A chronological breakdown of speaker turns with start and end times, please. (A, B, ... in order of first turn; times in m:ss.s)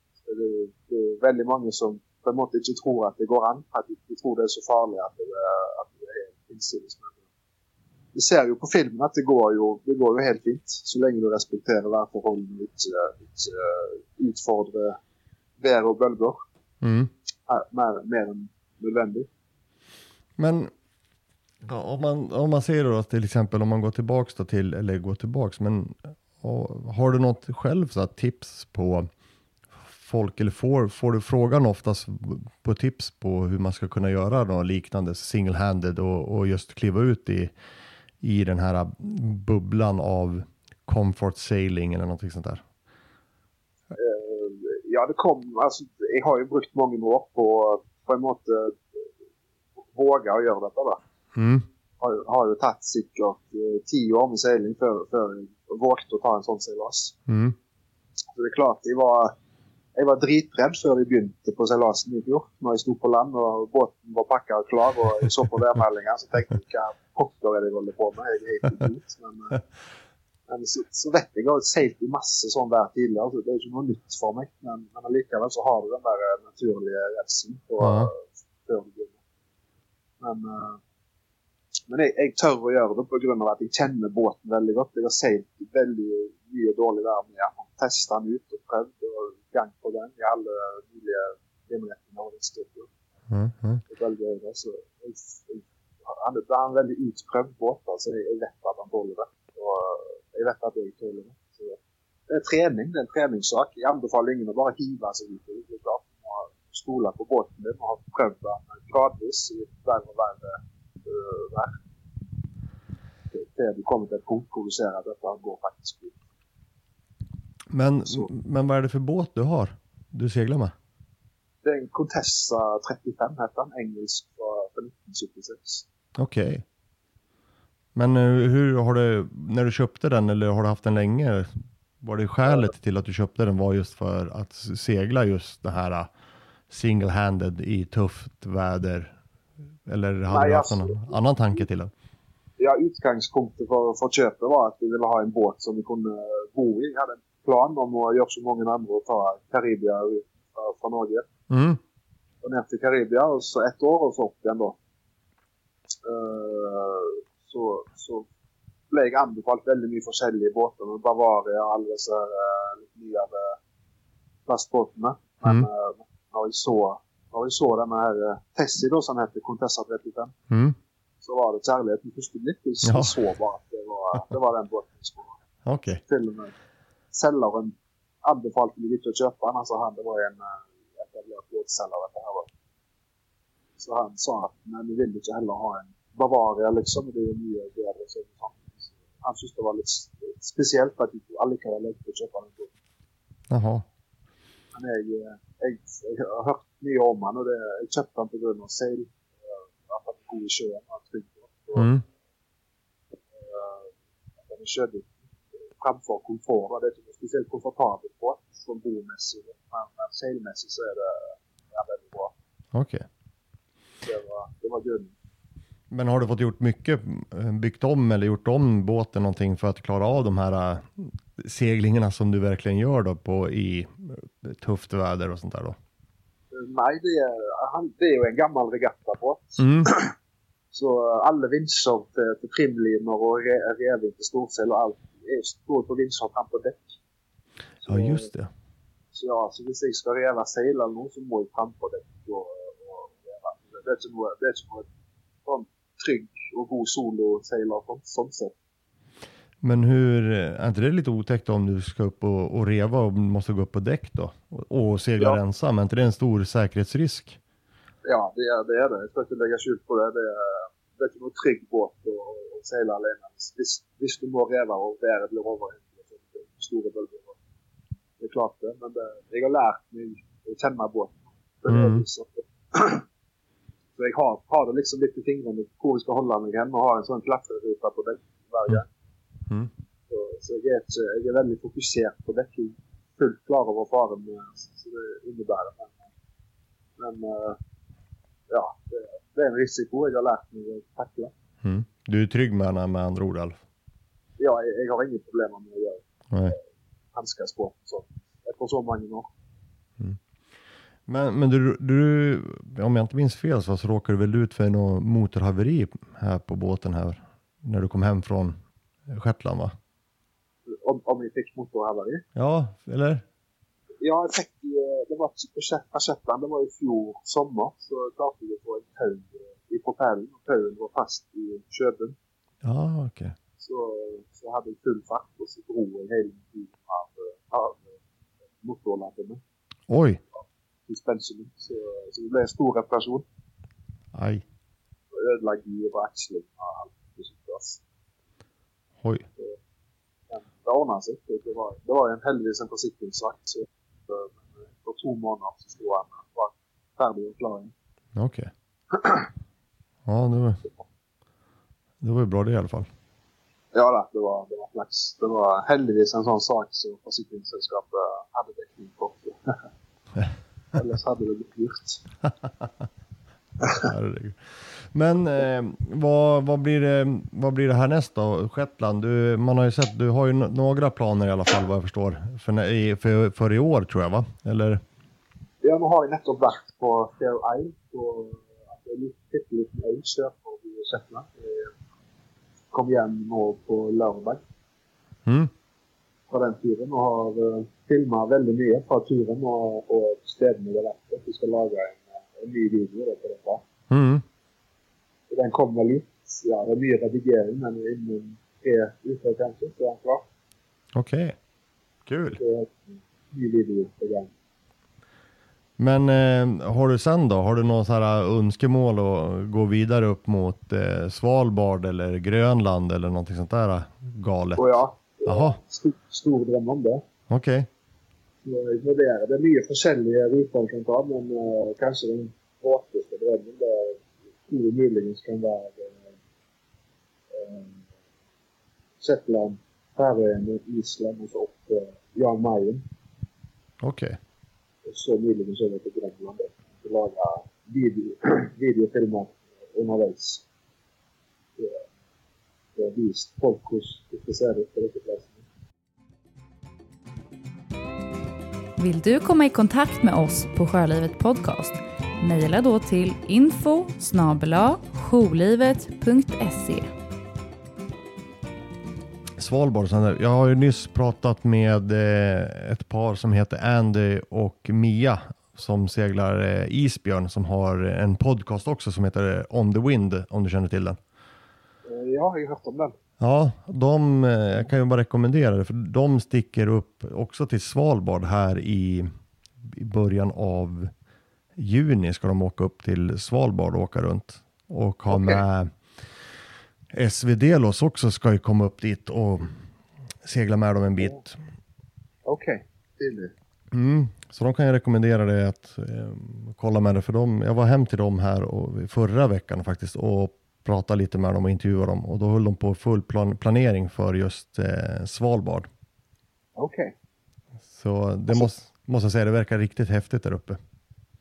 0:00.2-0:07.2 A
0:08.1-0:15.0 A
0:15.6-0:16.4 A
0:16.8-0:17.1 B
0:17.5-0:19.3 A
0:20.4-0:20.7 B
0:21.6-0:29.1 B
0:29.9-0:37.5 B
0:38.2-0:42.6 B
0:43.9-0:49.0 A
0:49.9-0:51.0 A
0:51.3-0:51.6 B
0:52.0-0:57.1 A
0:57.3-0:57.6 B
0:58.3-0:59.3 A
1:00.0-1:09.6 A
1:10.5-1:19.2 A
1:17.8-1:18.1 B
1:20.2-1:20.8 A
1:21.9-1:32.9 A
1:33.3-1:33.8 B
1:33.9-1:41.8 A
1:42.3-1:51.8 A
1:53.3-1:56.2 A
1:57.7-2:00.7 B
2:01.6-2:05.8 A
2:06.2-2:06.6 B
2:07.9-2:16.1 B
2:12.4-2:12.7 A
2:16.7-2:19.2 B
2:19.8-2:21.9 B
2:20.3-2:21.2 A
2:22.6-2:31.2 A
2:31.5-2:31.8 B
2:32.4-2:34.8 A
2:36.0-2:38.2 A
2:38.9-2:43.6 A
2:44.4-2:50.3 A
2:45.4-2:45.7 B
2:50.5-2:50.8 B
2:51.2-2:55.4 A
2:52.8-2:53.1 B
2:55.6-2:56.0 B
2:56.0-2:56.5 A
2:57.1-3:02.5 A
3:03.8-3:12.7 A
3:13.5-3:13.8 B
3:14.7-3:22.0 A
3:21.7-3:22.0 B
3:23.3-3:23.9 A
3:24.4-3:25.2 A
3:25.8-3:32.3 A
3:32.7-3:33.0 B
3:34.0-3:35.1 A
3:35.9-3:45.8 B
3:46.5-3:50.1 A
3:49.6-3:49.9 B
3:50.7-3:56.9 A
3:57.8-3:58.3 A
3:57.8-3:58.5 B
3:59.1-4:04.9 A
4:05.4-4:08.5 A
4:09.6-4:17.4 B
4:18.0-4:27.4 A
4:28.2-4:33.0 A
4:31.7-4:32.0 B
4:34.0-4:38.9 A
4:40.1-4:46.0 A
4:47.0-4:47.6 A
4:48.5-4:51.3 A
4:51.6-4:53.6 B
4:54.4-4:56.6 A
4:56.3-4:56.6 B
4:57.1-4:59.3 A
5:01.1-5:08.6 B
5:09.1-5:09.8 B
5:10.7-5:12.2 A
5:12.3-5:13.2 B
5:14.0-5:22.2 A
5:22.6-5:23.4 B
5:23.6-5:27.9 A
5:28.6-5:29.4 A
5:29.9-5:30.2 B
5:30.9-5:33.2 A
5:34.1-5:34.4 B
5:35.1-5:37.8 A
5:40.3-5:47.7 A
5:48.1-5:48.5 B
5:50.0-5:50.6 B
5:52.0-5:52.9 B
5:53.7-5:59.6 A
6:00.7-6:02.0 A
6:02.4-6:02.8 B
6:03.8-6:14.8 B
6:15.6-6:21.7 A
6:22.7-6:24.4 A
6:25.2-6:25.5 B
6:26.3-6:33.6 A
6:33.9-6:34.2 B
6:35.3-6:40.2 A
6:40.9-6:41.4 B
6:42.0-6:42.4 B
6:42.4-6:44.3 A
6:45.8-6:55.6 B
6:54.6-6:57.0 A
6:57.3-6:57.7 B
6:58.4-7:06.1 A
7:07.3-7:07.8 A
7:09.0-7:12.8 A
7:13.8-7:14.2 B
7:14.8-7:20.4 A
7:21.6-7:21.8 A
7:22.8-7:25.4 A
7:28.8-7:36.9 C
7:39.4-7:51.0 B
7:51.9-7:52.9 A
7:53.2-7:59.1 B
7:59.6-8:00.9 B
8:01.6-8:05.7 B
8:05.1-8:05.4 A
8:06.9-8:09.5 B
8:10.2-8:11.4 B
8:12.2-8:13.3 A
8:13.7-8:25.7 B
8:26.6-8:26.9 A
8:27.7-8:30.6 B